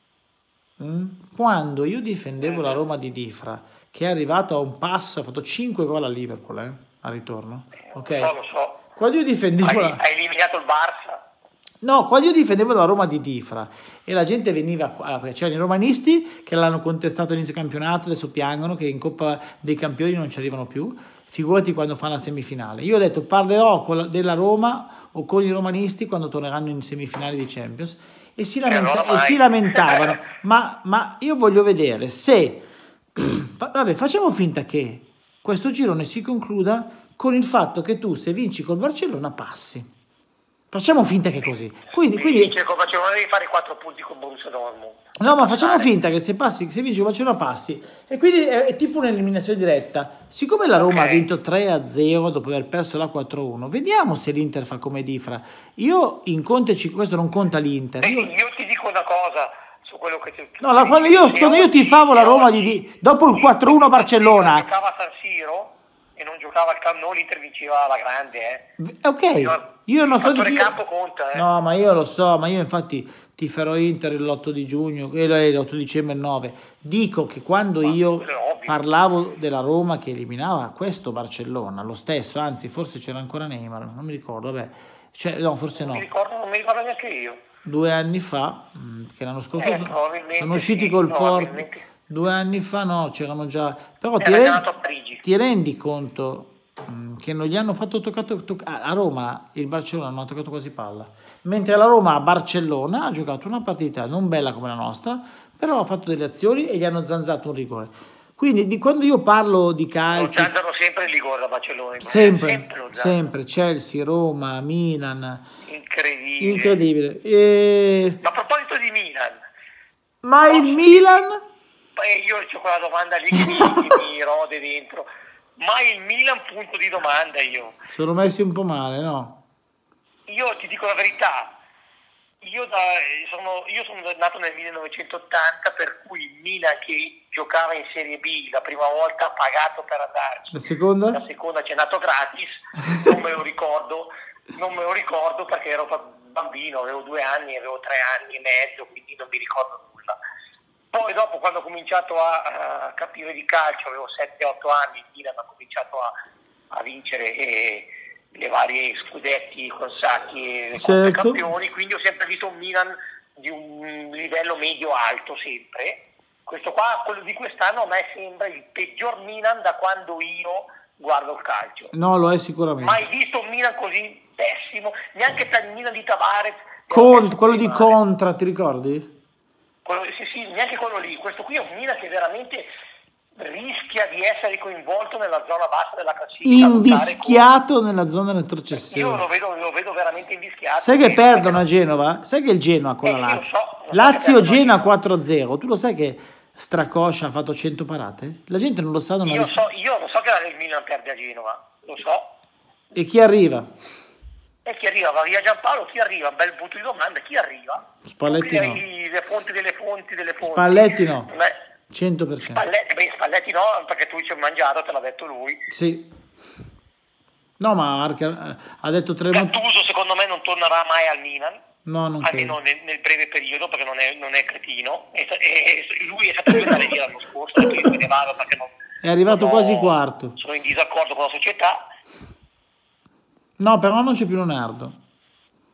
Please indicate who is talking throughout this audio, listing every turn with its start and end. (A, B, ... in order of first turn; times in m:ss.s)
0:00.8-0:08.3 A
0:02.4-0:02.8 B
0:07.9-0:08.8 B
0:09.0-0:10.0 A
0:09.6-0:11.2 B
0:11.8-0:32.6 A
0:28.6-0:30.2 B
0:33.1-0:39.9 A
0:40.7-0:42.6 A
0:42.1-0:45.9 B
0:45.2-0:58.3 A
0:50.8-0:51.2 B
0:58.0-1:08.6 B
1:00.6-1:04.7 A
1:08.8-1:10.8 A
1:09.3-1:11.4 B
1:11.3-1:26.0 A
1:17.8-1:18.8 B
1:25.8-1:27.4 B
1:27.6-1:34.6 A
1:29.6-1:31.8 B
1:34.2-1:35.2 B
1:35.2-1:50.5 A
1:50.1-1:53.2 B
1:52.0-1:55.4 A
1:55.6-1:56.8 B
1:56.4-1:58.2 A
1:58.2-1:59.4 B
2:00.2-2:01.4 A
2:00.5-2:01.1 B
2:02.0-2:07.8 B
2:03.4-2:03.9 A
2:07.9-2:09.4 A
2:10.3-2:11.5 B
2:12.4-2:20.6 B
2:20.5-2:21.2 A
2:21.1-2:30.2 B
2:30.9-2:36.1 B
2:36.7-2:51.9 B
2:40.8-2:41.4 A
2:51.9-2:53.0 A
2:52.8-2:58.0 B
2:56.9-2:59.1 A
2:59.8-3:02.7 B
3:03.4-3:07.4 B
3:06.4-3:09.2 A
3:08.7-3:11.6 B
3:10.8-3:19.6 A
3:13.0-3:14.9 B
3:19.2-3:22.3 B
3:23.0-3:23.7 A
3:24.6-3:31.6 B
3:28.0-3:28.8 A
3:30.4-3:31.3 A
3:31.9-3:32.6 A
3:32.5-3:35.6 B
3:35.7-3:36.1 A
3:37.6-3:39.5 A
3:39.3-3:41.6 B
3:41.9-3:42.6 A
3:42.2-3:48.7 B
3:49.0-3:50.4 A
3:49.3-3:51.8 B
3:53.6-3:55.0 A